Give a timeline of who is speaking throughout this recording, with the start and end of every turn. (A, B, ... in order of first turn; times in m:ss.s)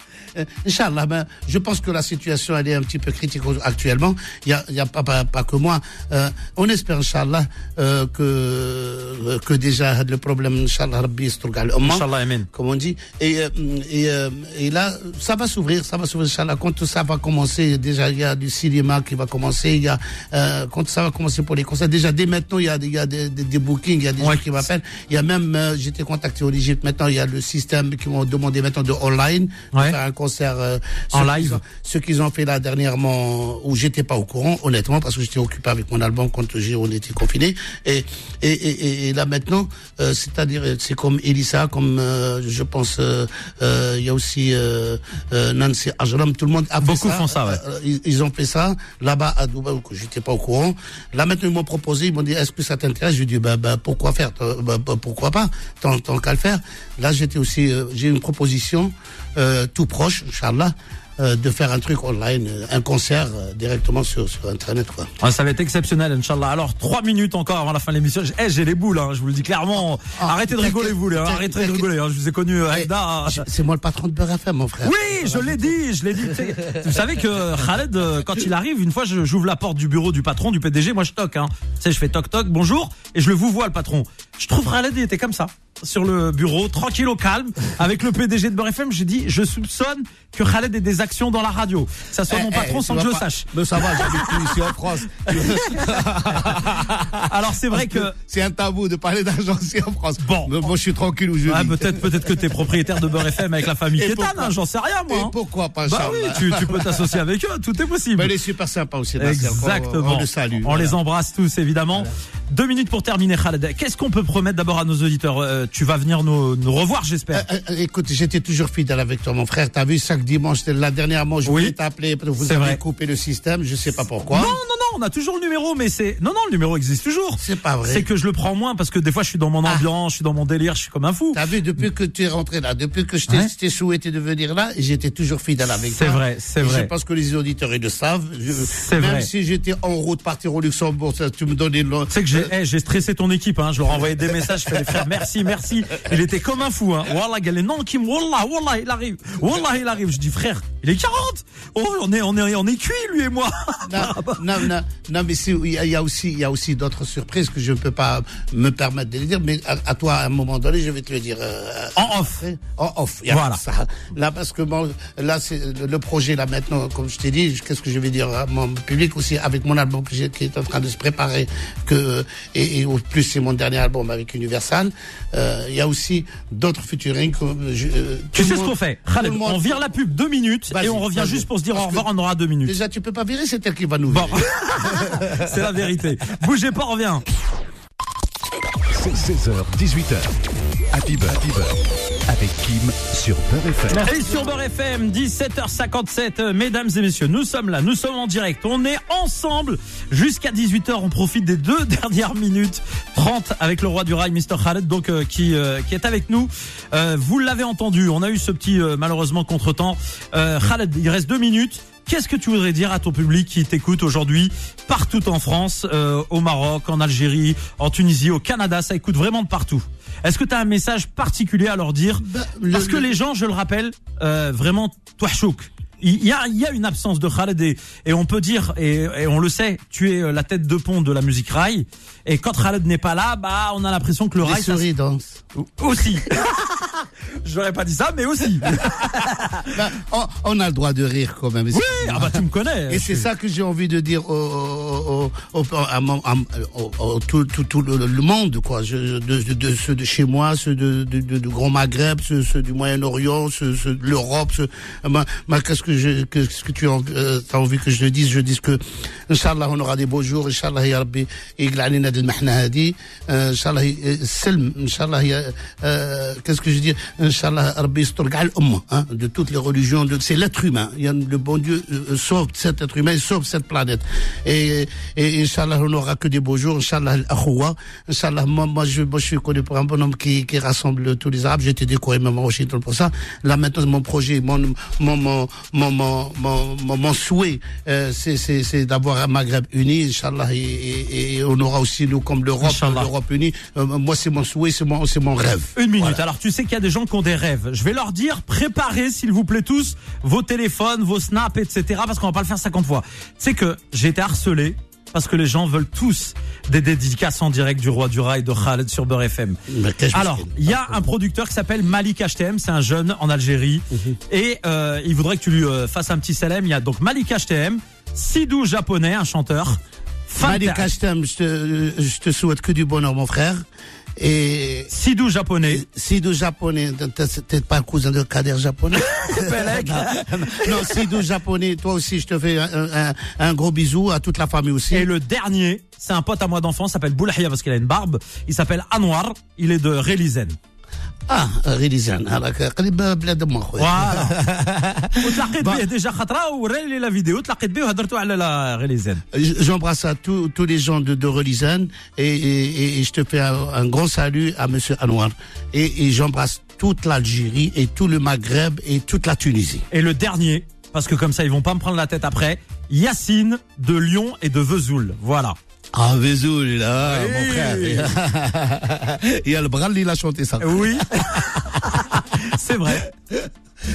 0:00.4-1:05.1 A
0:11.8-0:12.5 B
0:24.2-0:24.6 B
0:31.1-0:31.6 B
0:46.8-0:47.6 B
1:05.2-1:13.4 B
1:10.1-1:11.8 A
1:12.7-1:16.7 A
1:14.8-1:34.7 B
1:32.3-1:42.5 A
1:35.3-1:36.0 B
1:37.2-1:38.1 B
1:40.2-1:40.5 B
1:41.4-1:48.3 B
1:43.9-1:44.5 A
1:45.1-1:47.0 A
1:48.1-1:51.0 A
1:49.2-1:57.4 B
1:57.3-2:04.6 A
2:01.4-2:01.7 B
2:02.4-2:02.8 B
2:04.3-2:11.8 B
2:07.4-2:08.1 A
2:11.3-2:22.5 A
2:15.9-2:16.9 B
2:18.6-2:19.3 B
2:22.1-2:34.7 B
2:23.9-2:25.3 A
2:33.8-2:59.8 A
2:42.0-2:42.4 B
2:43.3-2:43.6 B
2:58.3-3:02.7 B
3:00.7-3:02.1 A
3:02.6-3:05.6 A
3:04.1-3:07.2 B
3:08.9-3:10.3 C
3:10.9-3:14.1 C
3:13.9-3:54.8 B
3:42.2-3:43.1 A
3:54.4-3:55.4 A
3:55.5-3:59.7 B
3:59.7-4:56.2 A
4:01.7-4:03.3 B
4:52.6-4:53.1 B
4:55.8-5:09.6 B
5:09.7-5:11.1 A
5:10.1-5:20.9 B
5:13.9-5:14.2 A
5:20.4-5:23.6 A
5:24.2-5:24.9 A
5:24.9-5:25.8 B
5:25.7-5:35.1 A
5:28.9-5:31.1 B
5:34.9-5:40.6 B
5:41.3-5:45.8 A
5:43.8-5:44.4 B
5:45.2-5:49.2 B
5:49.3-5:59.8 A
5:59.9-6:05.6 B
6:05.9-6:13.4 A
6:07.0-6:08.1 B
6:10.6-6:13.0 B